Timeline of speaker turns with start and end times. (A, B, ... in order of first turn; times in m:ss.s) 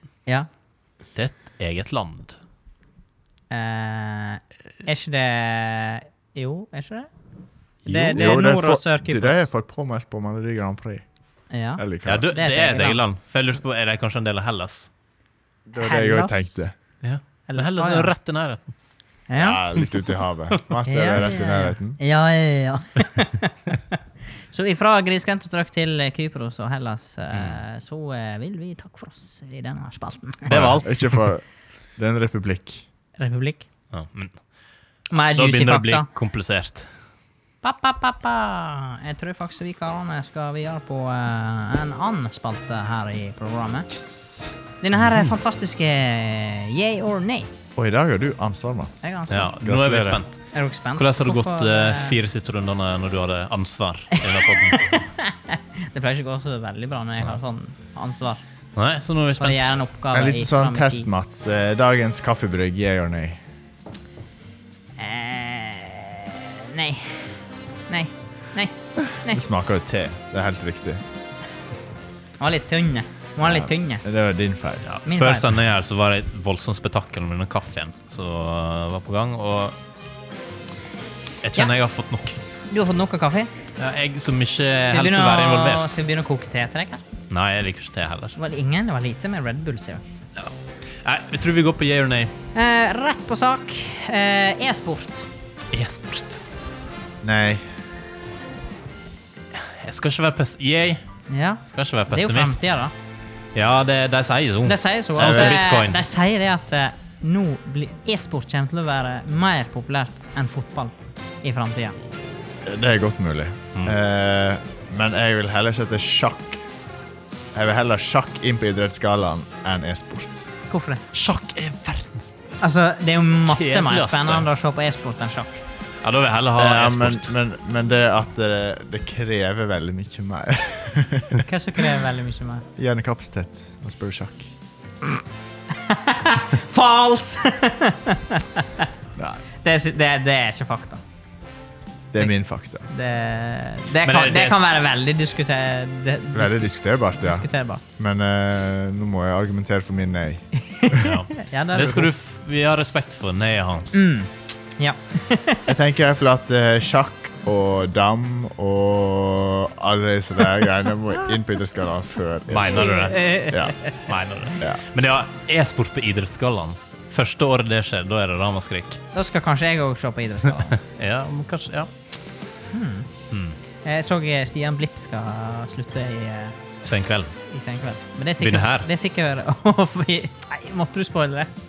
0:01.2-0:02.4 A
0:03.5-0:07.1 B
0:07.8-0:09.4 B
0:07.9-0:08.3 A
0:08.1-0:11.0 C
0:11.5-0:13.0 B
0:11.8-0:12.3 C
0:12.0-0:14.9 A
0:15.7-0:16.7 C
0:15.8-0:16.6 B
0:17.0-0:18.7 A
0:17.5-0:18.1 B
0:19.3-0:19.6 B
0:19.4-0:22.0 C
0:20.9-0:24.0 B
0:24.5-0:30.6 B
0:30.5-0:31.3 A
0:30.5-0:32.8 C
0:33.2-0:33.7 B
0:33.9-0:34.4 A
0:35.1-0:36.1 B
0:35.4-0:36.9 A
0:37.6-0:43.9 B
0:43.9-0:44.5 C
0:44.8-0:47.5 B
0:47.8-0:50.2 C
0:49.0-0:49.5 B
0:49.3-0:55.0 A
0:50.5-0:52.2 B
0:54.2-0:58.4 B
0:58.8-0:59.8 A
0:59.4-1:01.1 B
1:00.1-1:03.4 C
1:05.0-1:07.3 B
1:07.9-1:09.4 B
1:09.1-1:11.0 C
1:12.4-1:14.0 B
1:13.4-1:14.9 C
1:14.9-1:19.8 A
1:15.0-1:15.5 B
1:21.4-1:22.4 A
1:22.7-1:23.5 B
1:23.8-1:26.0 A
1:24.9-1:27.0 B
1:27.3-1:28.4 A
1:28.4-1:30.0 B
1:30.4-1:32.3 A
1:32.6-1:35.3 B
1:35.7-1:36.4 A
1:37.2-1:37.8 C
1:39.5-1:41.0 A
1:41.3-1:42.9 B
1:41.7-1:42.6 A
1:43.6-1:46.0 A
1:44.6-1:52.0 B
1:45.2-1:45.6 C
1:52.6-1:56.6 C
1:57.5-2:00.5 C
2:00.7-2:01.0 B
2:01.1-2:02.3 A
2:02.6-2:05.6 B
2:03.5-2:04.5 A
2:06.0-2:07.4 A
2:06.6-2:11.4 C
2:11.4-2:12.7 B
2:12.8-2:14.5 C
2:15.7-2:18.9 B
2:19.2-2:19.4 C
2:19.6-2:21.0 B
2:22.1-2:22.9 C
2:22.9-2:27.8 B
2:24.0-2:24.7 A
2:26.3-2:31.1 C
2:30.7-2:32.1 B
2:31.0-2:34.0 A
2:33.9-2:35.7 B
2:35.7-2:43.8 C
2:42.5-2:43.4 A
2:42.6-2:44.0 B
2:44.1-2:49.0 A
2:49.1-2:50.8 B
2:50.7-2:51.9 A
2:52.7-2:53.1 B
2:53.3-2:53.6 A
2:53.8-2:56.6 B
2:56.8-2:57.4 A
2:57.4-3:01.5 B
2:58.4-2:58.9 A